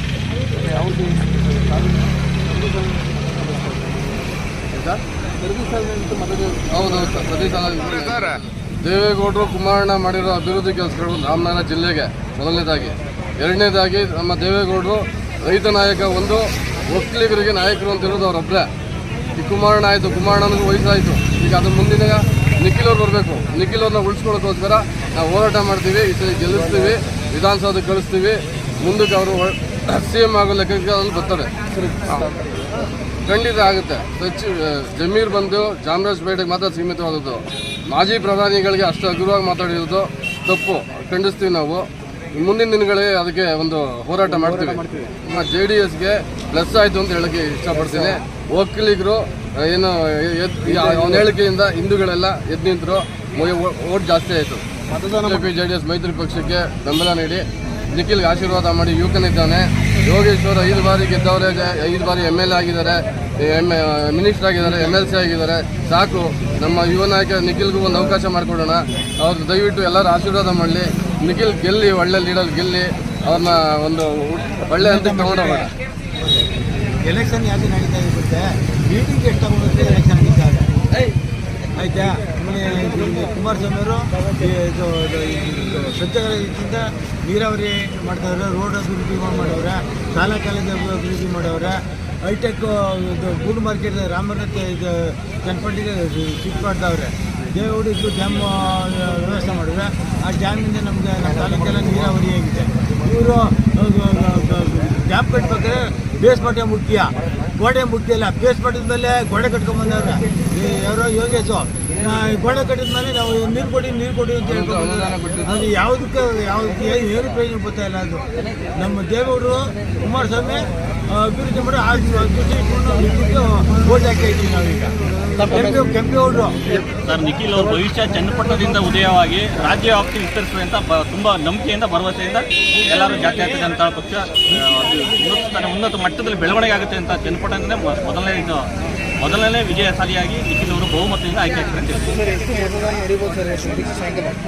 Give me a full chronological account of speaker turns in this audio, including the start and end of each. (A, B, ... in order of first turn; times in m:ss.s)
0:00.5-0:04.3 A
0:04.7-0:05.0 B
0:05.4-0:06.8 A
0:06.7-0:18.7 B
0:19.3-0:31.5 B
0:32.0-0:32.3 A
0:33.2-1:15.7 B
0:44.4-0:45.1 A
0:55.0-0:55.4 A
1:14.7-1:15.7 C
1:17.0-1:20.7 C
1:21.8-1:58.2 C
1:54.4-1:55.6 B
1:58.8-2:06.8 C
2:07.0-2:18.7 D
2:19.2-2:22.2 D
2:22.2-2:24.2 A